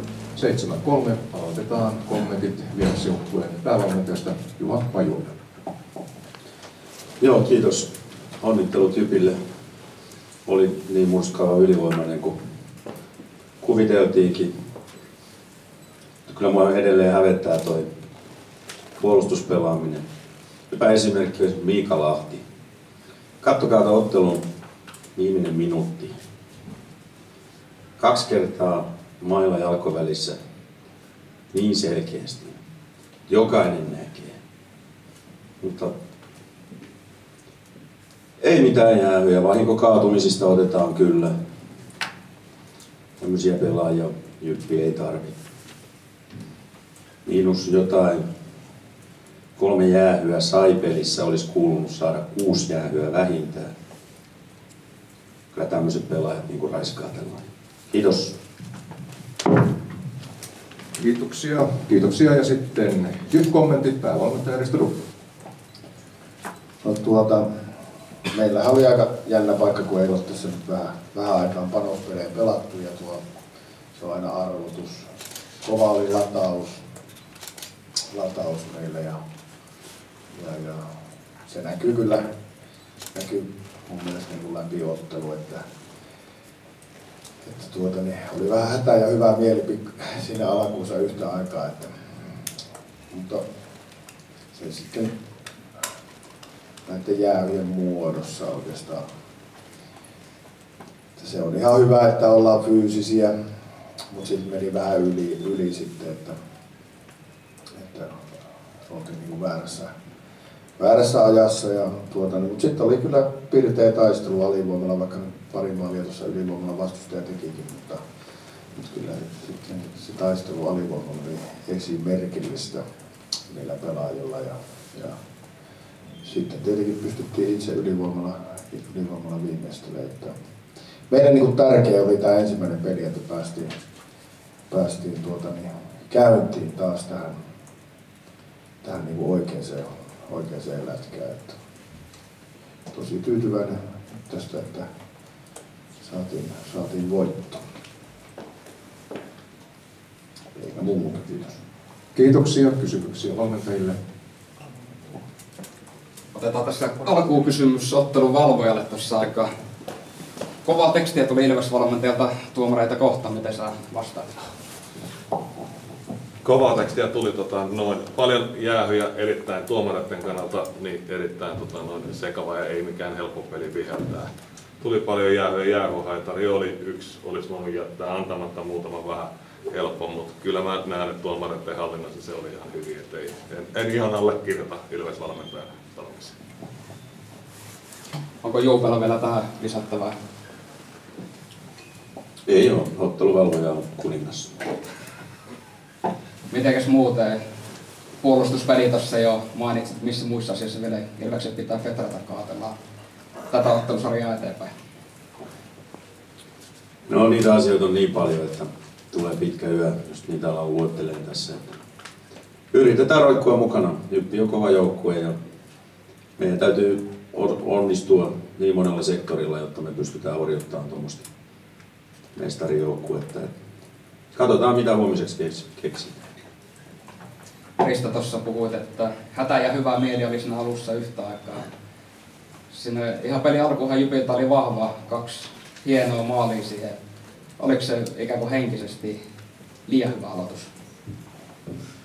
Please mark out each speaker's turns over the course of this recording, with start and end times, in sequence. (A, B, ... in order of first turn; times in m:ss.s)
0:00.3-0:05.4 A
0:07.2-0:09.4 B
0:10.4-0:12.4 B
0:13.6-0:14.5 B
0:16.3-0:17.9 B
0:19.0-0:20.0 B
0:20.7-0:22.4 B
0:23.4-0:24.4 B
0:25.2-0:26.1 B
0:28.0-0:30.4 B
0:31.5-0:32.6 B
0:33.3-0:34.4 B
0:35.6-0:35.9 B
0:38.4-0:41.3 B
0:43.2-0:45.3 B
0:47.2-0:48.2 B
0:49.6-0:53.7 B
0:55.5-0:58.4 B
1:01.0-1:05.0 A
1:06.8-1:07.5 C
1:08.3-1:13.2 C
1:13.9-1:15.1 C
1:15.6-1:16.8 C
1:18.1-1:19.2 C
1:20.3-1:20.8 C
1:21.5-1:22.2 C
1:23.1-1:25.6 C
1:27.4-1:31.9 C
1:33.1-1:33.4 C
1:34.5-1:35.1 C
1:36.8-1:39.0 C
1:41.2-1:43.3 C
1:44.1-1:46.4 C
1:47.8-1:48.2 C
1:48.9-1:49.9 C
1:50.8-1:58.0 C
1:58.7-2:02.8 C
2:03.5-2:05.2 C
2:06.2-2:10.3 C
2:11.1-2:13.7 C
2:14.7-2:17.4 C
2:18.8-2:21.6 C
2:22.9-2:24.9 C
2:26.0-2:27.6 C
2:30.5-2:31.6 C
2:32.1-2:34.0 A
2:36.3-2:39.5 D
2:40.6-2:44.5 D
2:46.4-2:54.3 E
2:54.8-3:06.3 E
3:08.4-3:10.1 D
3:12.5-3:14.5 B
3:16.5-3:17.4 D
3:18.2-3:22.7 D
3:23.5-3:24.7 D
3:27.1-3:31.7 B
3:32.7-3:35.3 B
3:36.4-3:41.2 B
3:42.3-3:43.5 B
3:44.3-3:46.2 B
3:47.8-3:51.7 D
3:52.7-3:57.0 D
3:57.6-3:59.2 D
3:59.8-4:00.7 D